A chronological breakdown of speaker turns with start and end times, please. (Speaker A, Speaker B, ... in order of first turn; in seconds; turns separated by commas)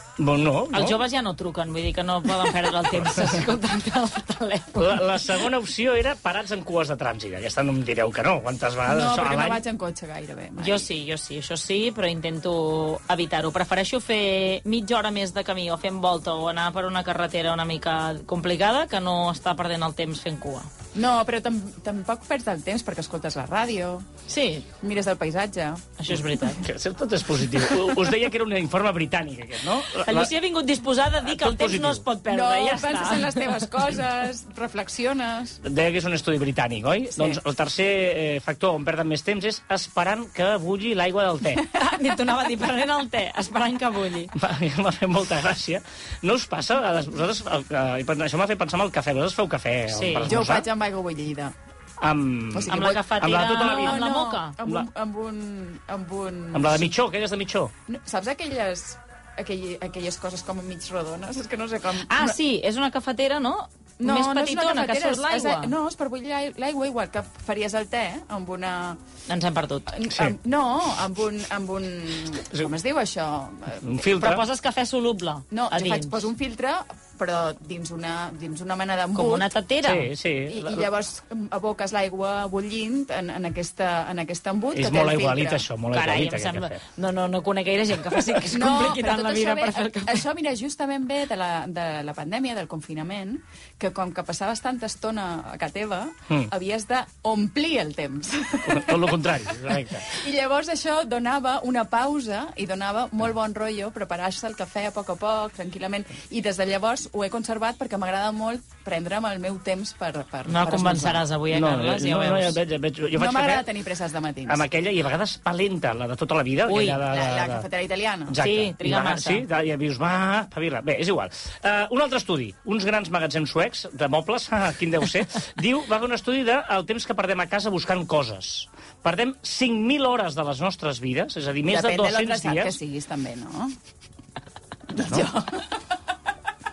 Speaker A: 0.2-1.0, Speaker B: 0.7-5.0, Speaker A: 4.7-9.6, Speaker C: 8.9-10.8, Speaker B: 10.6-20.7, Speaker C: 20.9-24.0, Speaker B: 24.3-24.7, Speaker C: 24.8-25.8, Speaker B: 26.0-26.6, Speaker A: 26.5-30.3, Speaker B: 30.0-33.6, Speaker A: 31.2-32.0, Speaker C: 32.3-35.6, Speaker A: 35.6-41.6, Speaker B: 41.7-44.3, Speaker A: 44.3-50.7, Speaker B: 49.9-50.3, Speaker C: 50.3-51.5, Speaker A: 52.0-54.0, Speaker C: 52.5-56.9, Speaker B: 52.7-54.6, Speaker A: 56.5-57.7, Speaker C: 57.9-62.4, Speaker B: 62.0-65.7, Speaker C: 64.0-69.0, Speaker B: 69.3-69.9, Speaker C: 69.9-74.0, Speaker A: 70.1-70.3, Speaker A: 73.8-74.4, Speaker B: 74.2-76.3, Speaker C: 75.5-79.5, Speaker B: 79.1-80.1, Speaker A: 79.8-80.8, Speaker C: 80.5-85.7, Speaker A: 84.7-86.8, Speaker B: 85.9-90.2, Speaker C: 88.5-99.3, Speaker A: 98.7-100.2, Speaker C: 100.0-111.2, Speaker B: 110.5-112.6, Speaker A: 111.5-113.7, Speaker C: 113.2-114.6, Speaker A: 114.5-117.7, Speaker B: 116.7-117.0, Speaker C: 117.1-118.4, Speaker A: 118.3-132.8, Speaker B: 118.4-119.4, Speaker C: 131.7-133.8, Speaker C: 134.9-135.7, Speaker A: 135.0-135.2